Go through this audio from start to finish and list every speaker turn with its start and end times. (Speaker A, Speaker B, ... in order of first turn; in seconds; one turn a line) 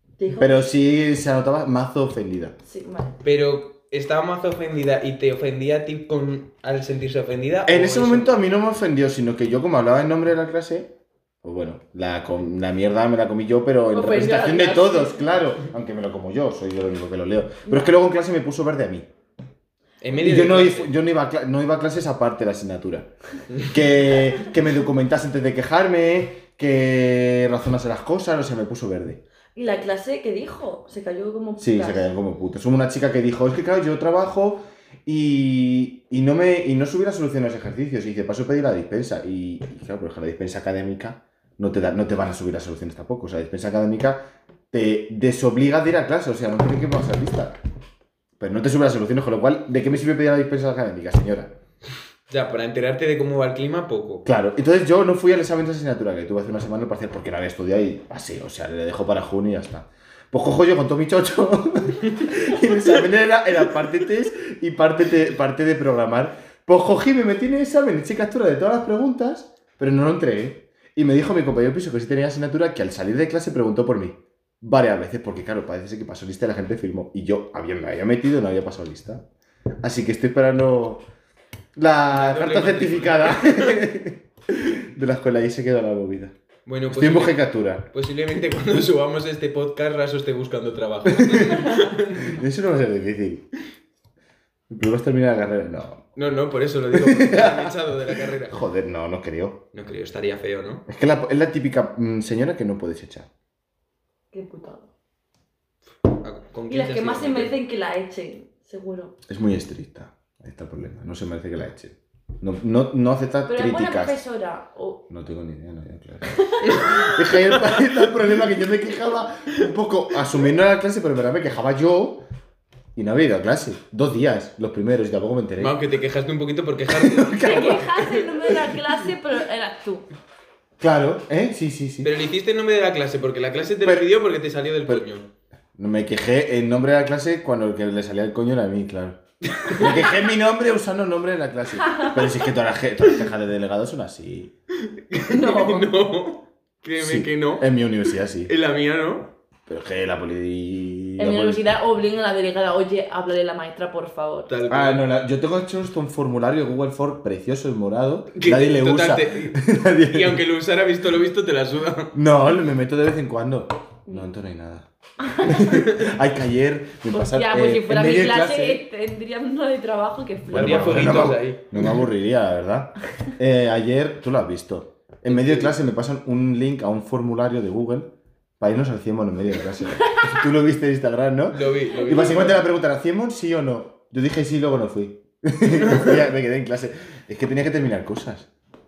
Speaker A: 0.2-0.7
Speaker B: 0.3-2.6
Speaker A: 2.6-3.1
Speaker C: 3.2-8.4
Speaker B: 7.7-19.1
Speaker A: 13.9-15.2
Speaker A: 17.7-17.9
Speaker C: 20.0-20.9
Speaker B: 20.2-23.1
Speaker B: 23.6-29.2
Speaker A: 29.6-32.1
Speaker B: 31.6-47.6
Speaker B: 48.4-51.6
Speaker C: 52.3-54.3
Speaker B: 54.3-79.3
Speaker B: 79.8-81.0
Speaker B: 81.8-86.3
Speaker C: 82.1-83.9
Speaker C: 86.7-92.4
Speaker B: 86.9-87.9
Speaker B: 91.0-93.5
Speaker B: 94.7-96.1
Speaker C: 96.2-98.6
Speaker B: 96.9-99.6
Speaker C: 99.7-100.8
Speaker B: 100.9-103.3
Speaker A: 104.3-104.9
Speaker C: 106.0-107.6
Speaker A: 106.7-109.1
Speaker B: 109.3-114.2
Speaker A: 113.5-115.0
Speaker B: 115.1-122.2
Speaker A: 116.3-117.3
Speaker B: 123.0-125.8
Speaker C: 125.6-128.2
Speaker B: 126.9-128.2
Speaker A: 127.4-130.1
Speaker B: 130.8-132.1
Speaker C: 132.0-135.3
Speaker B: 133.8-134.1
Speaker B: 135.8-144.5
Speaker C: 139.6-139.9
Speaker C: 144.8-147.7
Speaker A: 145.3-145.9
Speaker B: 147.0-148.5
Speaker C: 148.5-149.3
Speaker B: 149.7-151.7
Speaker A: 151.2-154.5
Speaker C: 154.5-155.1
Speaker B: 154.7-160.4
Speaker C: 158.3-162.1
Speaker B: 162.1-164.9
Speaker A: 165.3-165.7
Speaker B: 165.4-168.8
Speaker A: 167.1-171.3
Speaker B: 170.5-188.5
Speaker C: 170.5-172.0
Speaker C: 175.3-175.7
Speaker C: 181.5-182.6
Speaker C: 185.8-186.2